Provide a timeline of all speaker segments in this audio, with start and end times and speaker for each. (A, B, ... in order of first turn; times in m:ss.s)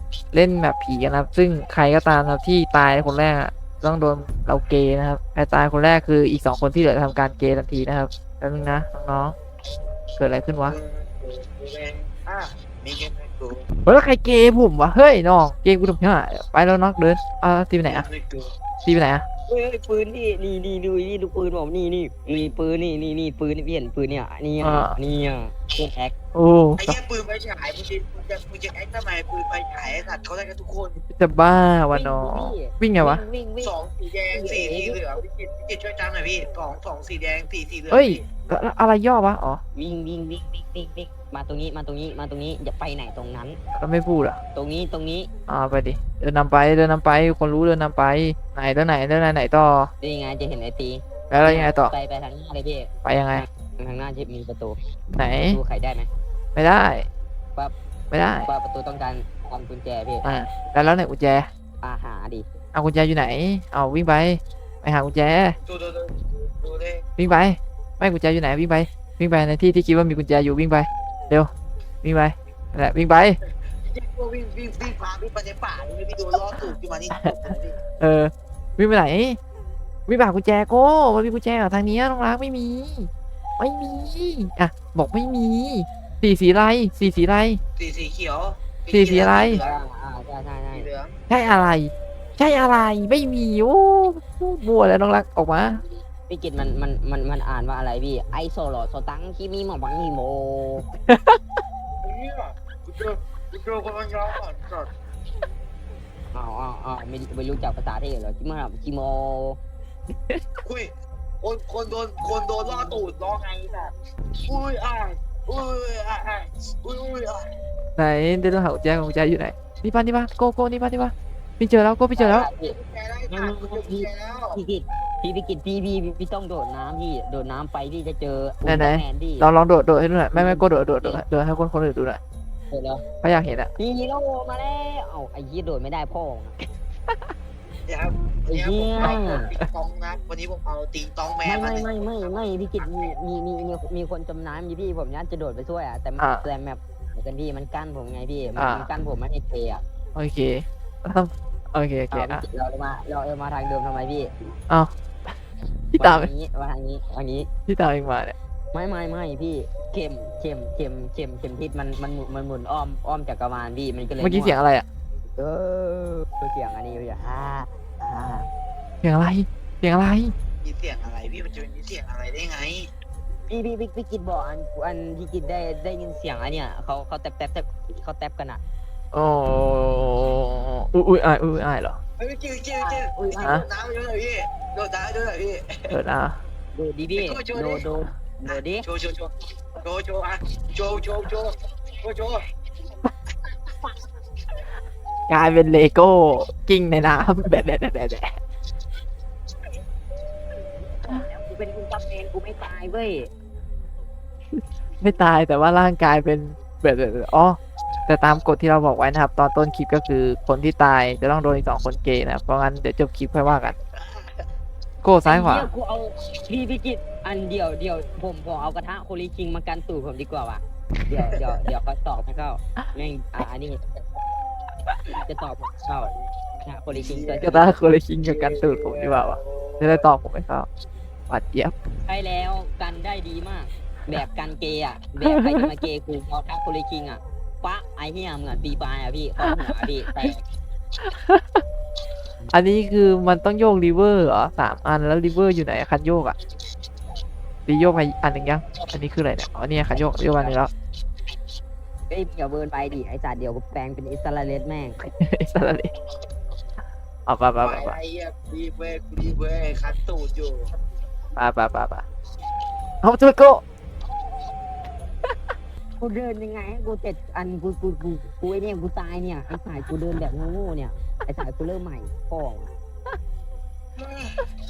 0:00.3-0:09.3 A
0:10.2-0:10.8 A
0:10.6-0:13.6 B
0:13.8-0:18.0 A
0:17.8-0:18.5 B
0:18.8-0:19.2 A
0:19.5-0:26.1 C
0:24.6-0:25.0 A
0:26.3-0:27.0 A
0:26.8-0:31.0 B
0:31.2-0:33.2 A
0:31.9-0:33.8 C
0:33.6-0:38.2 B
0:34.3-0:35.0 C
0:37.9-0:39.6 A
0:39.7-0:43.6 C
0:43.7-0:44.4 A
0:44.5-0:45.3 C
0:45.5-0:49.9 A
0:50.0-0:54.8 C
0:51.3-0:51.9 A
0:53.0-0:53.4 A
0:55.1-0:55.6 A
0:55.4-0:56.1 C
0:56.6-0:57.1 A
0:58.1-0:58.5 A
0:58.3-1:00.4 C
1:00.2-1:01.5 A
1:01.8-1:02.4 C
1:02.7-1:05.6 A
1:05.6-1:07.0 B
1:07.2-1:11.5 A
1:12.0-1:13.4 A
1:13.8-1:17.8 B
1:18.0-1:19.4 A
1:20.1-1:27.6 A
1:27.8-1:29.8 B
1:28.9-1:29.6 A
1:29.5-1:30.9 C
1:30.7-1:31.1 B
1:31.3-1:35.8 A
1:36.3-1:40.9 C
1:41.1-1:41.4 A
1:42.0-1:44.9 B
1:46.3-1:49.6 C
1:50.6-1:53.9 B
1:54.4-1:57.5 B
1:58.0-2:02.5 A
2:02.2-2:02.8 C
2:02.6-2:04.6 B
2:03.3-2:09.5 C
2:08.6-2:12.2 A
2:10.3-2:11.2 C
2:12.7-2:13.0 C
2:13.2-2:13.7 A
2:13.8-2:16.6 C
2:17.9-2:23.1 B
2:18.5-2:19.5 C
2:21.4-2:29.8 C
2:26.2-2:26.4 A
2:28.6-2:28.9 A
2:30.1-2:32.4 A
2:32.1-2:34.3 C
2:35.9-2:36.3 A
2:35.9-2:37.5 C
2:37.7-2:38.3 A
2:38.7-2:44.6 C
2:44.2-2:44.8 A
2:45.4-2:48.5 C
2:49.0-2:50.3 A
2:50.6-2:52.9 B
2:53.5-2:58.6 C
2:59.1-3:02.0 A
3:02.2-3:05.9 B
3:02.8-3:03.5 C
3:05.9-3:06.4 A
3:06.7-3:08.8 C
3:07.1-3:07.8 B
3:08.4-3:12.4 B
3:15.3-3:18.3 A
3:21.0-3:23.3 C
3:24.5-3:33.8 A
3:34.0-3:34.3 B
3:35.0-3:35.7 A
3:35.2-3:43.8 C
3:45.1-3:47.8 C
3:46.9-3:47.6 B
3:47.4-3:50.7 A
3:48.2-3:50.0 B
3:51.3-3:51.7 A
3:52.0-4:00.4 C
3:55.2-3:55.7 A
3:59.4-4:00.3 A
4:01.0-4:01.6 A
4:02.5-4:06.4 A
4:07.6-4:10.7 A
4:09.9-4:10.6 C
4:12.1-4:15.1 C
4:15.2-4:15.9 A
4:17.3-4:18.0 A
4:17.6-4:20.7 B
4:21.4-4:22.0 A
4:23.0-4:23.6 A
4:26.0-4:32.7 C
4:34.0-4:34.4 B